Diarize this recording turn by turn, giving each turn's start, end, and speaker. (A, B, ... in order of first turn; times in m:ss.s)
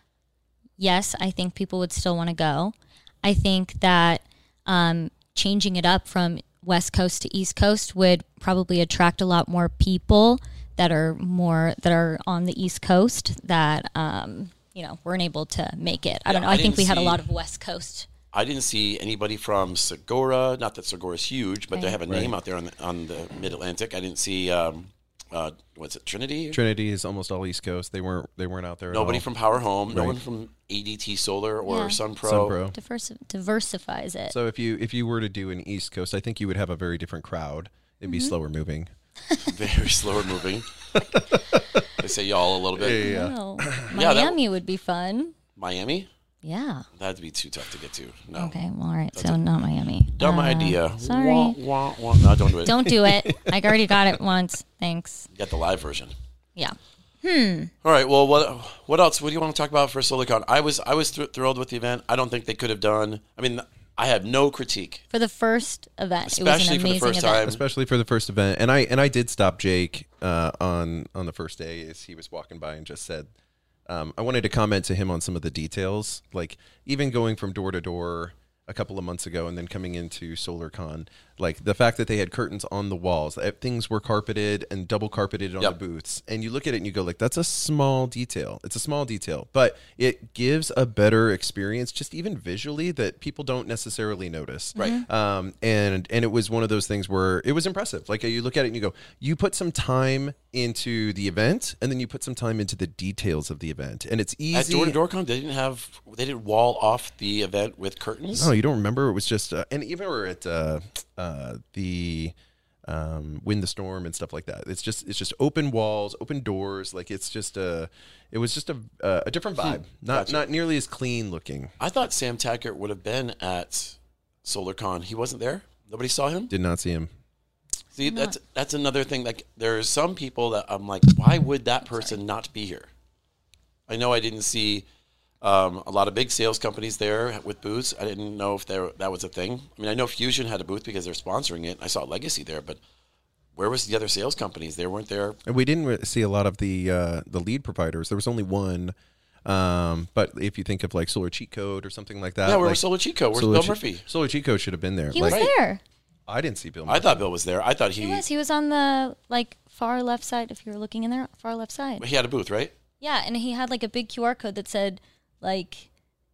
0:00.8-0:18.1 A
0:16.3-0:17.2 B
0:18.3-0:26.6 B
0:22.1-0:22.3 C
0:26.5-0:29.3 C
0:28.9-0:32.6 B
0:29.9-0:30.2 C
0:31.7-0:32.0 A
0:32.2-0:32.8 C
0:32.7-0:34.4 A
0:34.3-0:38.9 C
0:38.1-0:38.3 A
0:39.4-0:40.7 B
0:41.0-0:41.6 C
0:42.0-0:43.0 B
0:42.7-0:43.9 C
0:43.0-0:45.4 A
0:43.9-0:44.4 B
0:45.6-0:46.1 B
0:46.4-0:46.9 A
0:47.0-0:48.6 B
0:48.4-0:51.6 A
0:50.2-0:52.9 B
0:52.6-0:55.3 A
0:52.9-0:54.2 C
0:55.4-0:56.1 B
0:56.6-0:57.7 A
0:57.8-1:05.0 B
1:05.1-1:07.4 A
1:06.3-1:07.6 B
1:07.4-1:13.3 C
1:13.9-1:45.0 C
1:34.8-1:35.0 A
1:44.5-1:48.5 B
1:48.4-1:52.3 C
1:52.9-2:01.7 C
1:59.7-2:00.4 B
2:01.8-2:06.5 B
2:06.5-2:07.1 C
2:08.0-2:12.9 B
2:08.1-2:08.4 A
2:11.8-2:12.2 A
2:13.9-2:14.8 B
2:15.4-2:22.8 B
2:23.6-2:25.4 B
2:25.5-2:29.0 C
2:29.5-2:32.8 C
2:32.4-2:34.1 B
2:33.3-2:35.5 C
2:35.1-2:35.8 A
2:35.2-2:35.5 B
2:36.3-2:37.2 C
2:36.9-2:38.2 B
2:38.0-2:42.1 A
2:42.0-2:42.7 B
2:43.0-2:45.9 A